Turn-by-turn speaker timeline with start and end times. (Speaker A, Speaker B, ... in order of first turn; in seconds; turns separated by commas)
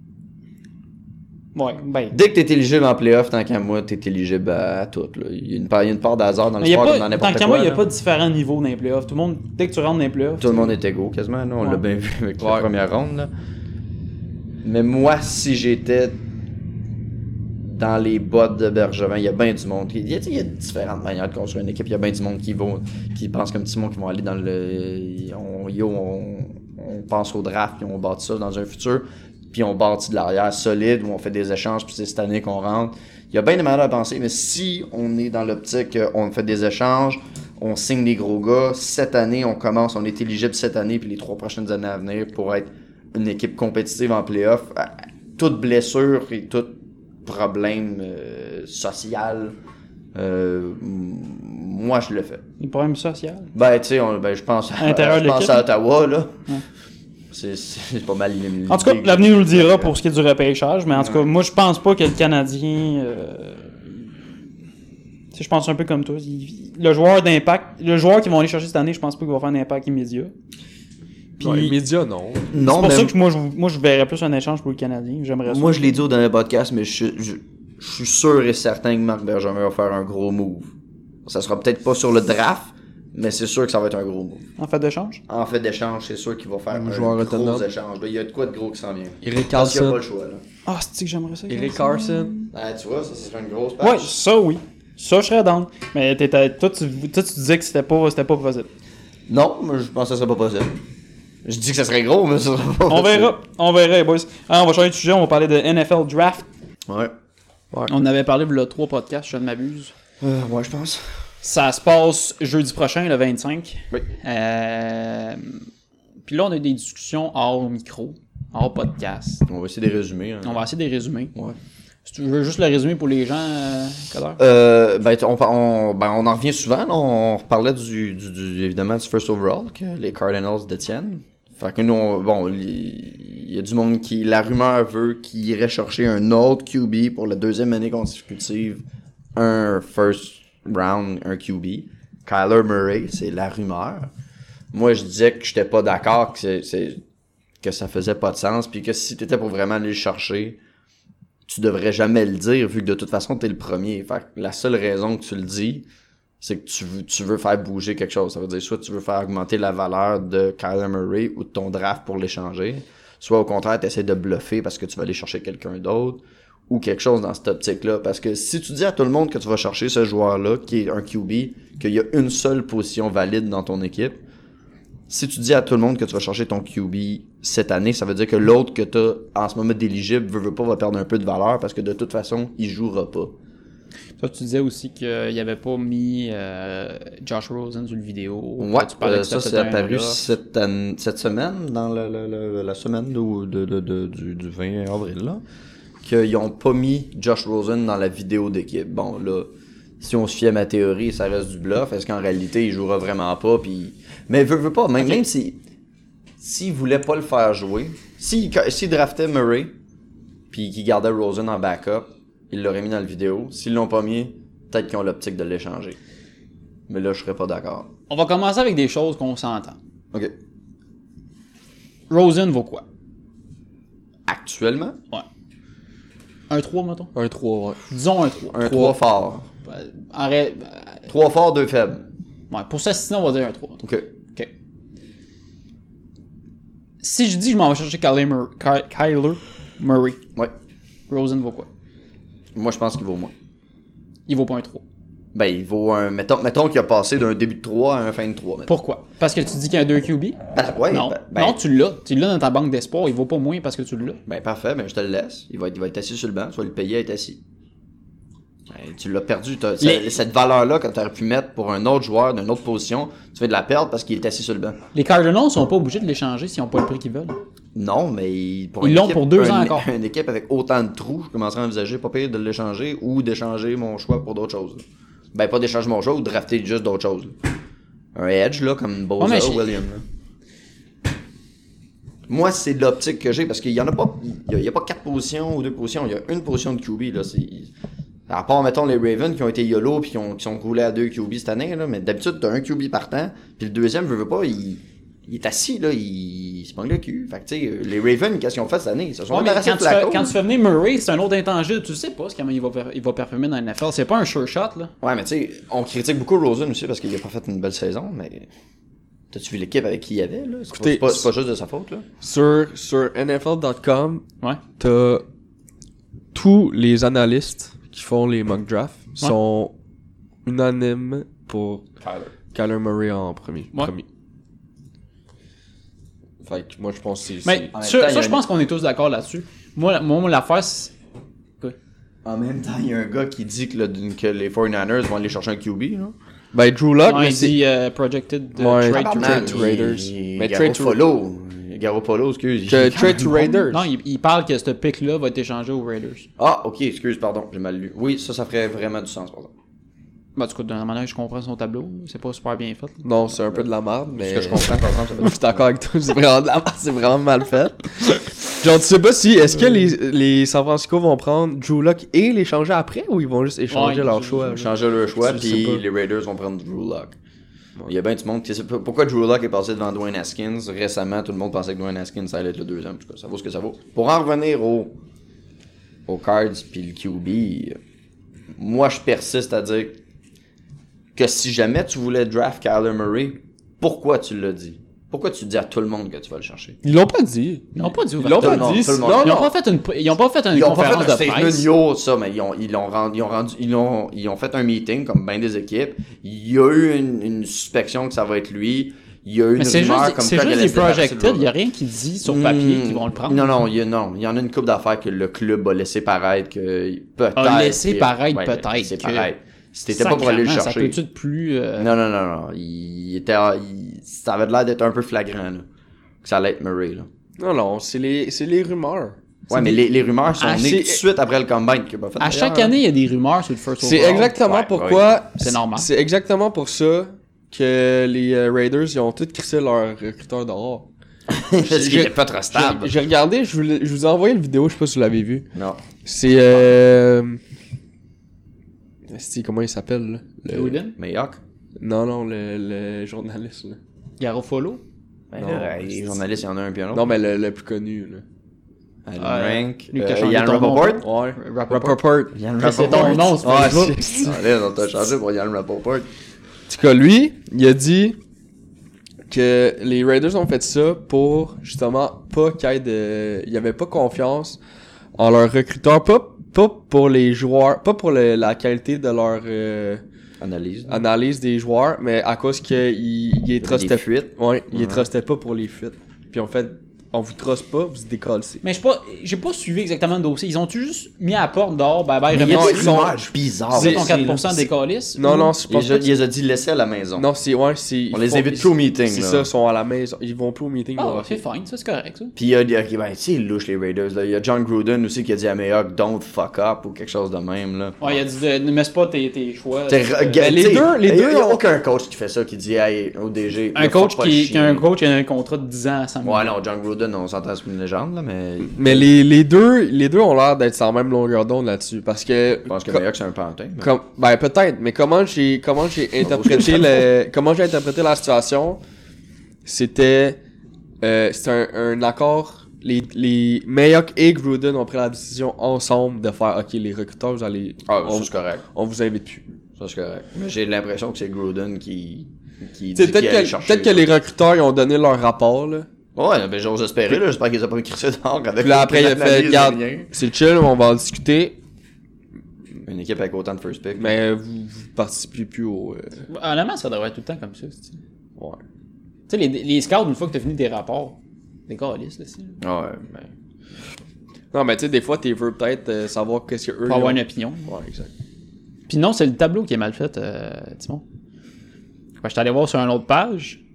Speaker A: 1.6-2.1, Speaker B: 2.1-7.8, Speaker A: 6.6-10.7, Speaker B: 10.4-13.3, Speaker C: 12.4-12.7, Speaker B: 14.6-16.2, Speaker B: 17.6-49.5, Speaker B: 50.1-52.4, Speaker A: 52.6-53.5, Speaker B: 53.5-56.4, Speaker A: 54.8-55.6, Speaker B: 57.3-60.0, Speaker A: 58.7-63.6, Speaker B: 60.9-61.2, Speaker A: 65.3-70.3, Speaker A: 71.4-71.7, Speaker C: 71.4-72.5, Speaker B: 72.5-73.1, Speaker A: 72.7-75.9, Speaker B: 75.5-80.7, Speaker B: 81.3-84.5, Speaker A: 84.6-85.2, Speaker B: 85.3-90.4, Speaker C: 86.7-87.7, Speaker C: 89.2-90.0, Speaker A: 90.7-92.5, Speaker C: 91.5-92.3, Speaker B: 92.5-94.2, Speaker A: 93.8-98.7, Speaker B: 99.3-100.8, Speaker B: 101.5-103.3, Speaker A: 102.9-106.4, Speaker B: 106.9-107.1, Speaker A: 107.9-109.9, Speaker B: 110.2-111.1, Speaker A: 111.4-115.7, Speaker A: 116.2-119.5, Speaker B: 119.5-120.6, Speaker A: 120.4-121.3, Speaker A: 122.0-124.4, Speaker B: 124.4-138.8, Speaker B: 139.4-144.1, Speaker B: 144.7-147.0, Speaker B: 147.6-150.6, Speaker B: 151.5-155.9, Speaker B: 156.4-174.2, Speaker B: 175.1-183.3, Speaker A: 184.2-190.2, Speaker B: 188.6-195.4, Speaker B: 196.0-205.6, Speaker B: 206.4-209.7, Speaker B: 210.5-216.0, Speaker B: 216.9-217.9, Speaker A: 218.1-219.8, Speaker A: 222.1-222.8, Speaker B: 224.3-225.0, Speaker A: 226.5-227.1, Speaker C: 227.1-227.8, Speaker A: 227.9-229.0, Speaker B: 228.5-229.5, Speaker A: 229.7-231.1, Speaker B: 231.1-232.1, Speaker A: 232.5-233.8, Speaker B: 233.8-234.1, Speaker A: 237.0-240.2, Speaker A: 241.1-241.7, Speaker B: 242.6-243.3, Speaker A: 244.3-244.8, Speaker B: 245.3-248.7, Speaker A: 248.7-250.4, Speaker B: 250.6-251.6, Speaker A: 250.9-254.2, Speaker B: 254.3-257.4, Speaker B: 258.7-264.8, Speaker A: 259.8-260.1, Speaker A: 264.9-267.4, Speaker B: 267.8-274.8, Speaker A: 268.8-269.9, Speaker B: 275.3-277.4, Speaker B: 278.1-280.0, Speaker A: 279.2-279.8, Speaker B: 282.3-287.7, Speaker B: 288.3-300.4, Speaker A: 299.3-304.9, Speaker B: 305.0-308.5, Speaker B: 309.3-312.1, Speaker C: 310.7-311.3, Speaker C: 312.2-314.3, Speaker C: 314.8-315.3, Speaker C: 316.3-319.7, Speaker C: 320.4-321.8, Speaker B: 322.0-322.3, Speaker C: 322.5-324.1, Speaker C: 326.4-327.7, Speaker A: 327.4-330.9, Speaker B: 327.7-328.4, Speaker B: 332.2-336.1, Speaker C: 336.5-337.6, Speaker A: 337.0-339.7, Speaker C: 338.6-341.0, Speaker B: 338.9-343.7, Speaker C: 342.7-343.9, Speaker A: 343.7-346.3, Speaker B: 346.4-349.5, Speaker A: 350.4-353.1, Speaker C: 353.0-365.8, Speaker B: 354.2-355.7, Speaker A: 363.7-364.7, Speaker B: 364.5-367.2, Speaker B: 367.9-375.0, Speaker B: 376.1-377.8, Speaker B: 378.6-380.0, Speaker B: 381.1-386.8, Speaker C: 386.8-389.5, Speaker A: 387.7-391.7, Speaker B: 388.4-389.5, Speaker B: 390.5-401.5, Speaker A: 399.6-403.5, Speaker B: 402.2-411.0, Speaker A: 407.4-409.3, Speaker A: 409.9-411.9, Speaker B: 411.8-415.7, Speaker B: 416.2-417.1, Speaker C: 417.4-419.2, Speaker A: 419.5-419.9, Speaker B: 419.5-422.8, Speaker A: 420.4-421.0, Speaker A: 422.2-424.4, Speaker C: 423.8-430.9, Speaker B: 424.4-425.2, Speaker A: 425.4-425.9, Speaker B: 431.3-432.9, Speaker C: 431.6-435.5, Speaker B: 435.5-435.8, Speaker C: 436.0-437.4, Speaker C: 439.1-440.8, Speaker A: 440.5-440.9, Speaker B: 441.0-441.4, Speaker C: 441.8-443.8, Speaker A: 444.2-444.8, Speaker B: 445.3-447.1, Speaker C: 445.4-445.9, Speaker C: 446.9-448.2, Speaker B: 449.1-451.1, Speaker A: 449.2-454.3, Speaker C: 451.0-454.5, Speaker B: 452.3-456.1, Speaker C: 456.7-458.2, Speaker C: 459.3-464.6, Speaker C: 465.1-470.0, Speaker B: 470.4-471.0, Speaker C: 470.9-478.6, Speaker B: 473.6-475.1, Speaker A: 478.6-483.1, Speaker B: 482.3-484.7, Speaker C: 482.4-484.2, Speaker A: 483.7-485.6, Speaker C: 485.2-486.1, Speaker B: 485.7-487.3, Speaker C: 487.2-491.4, Speaker B: 488.1-489.5, Speaker A: 491.0-492.3, Speaker B: 492.4-498.2, Speaker A: 498.0-500.8, Speaker B: 499.9-504.9, Speaker C: 500.4-501.6, Speaker A: 503.7-506.5, Speaker B: 506.2-509.1, Speaker C: 508.6-513.0, Speaker B: 512.7-513.9, Speaker C: 513.8-518.8, Speaker B: 516.2-517.1, Speaker C: 519.6-520.4, Speaker C: 521.0-529.5, Speaker B: 527.9-528.6, Speaker B: 529.8-534.1, Speaker C: 533.0-535.9, Speaker B: 536.2-540.1, Speaker C: 538.6-541.6, Speaker B: 542.9-544.2, Speaker C: 544.0-546.2, Speaker A: 546.3-548.0, Speaker A: 549.3-551.2, Speaker A: 551.7-552.5, Speaker B: 552.6-553.3, Speaker C: 554.5-558.1, Speaker A: 556.9-557.7, Speaker A: 558.9-561.0, Speaker A: 562.2-563.6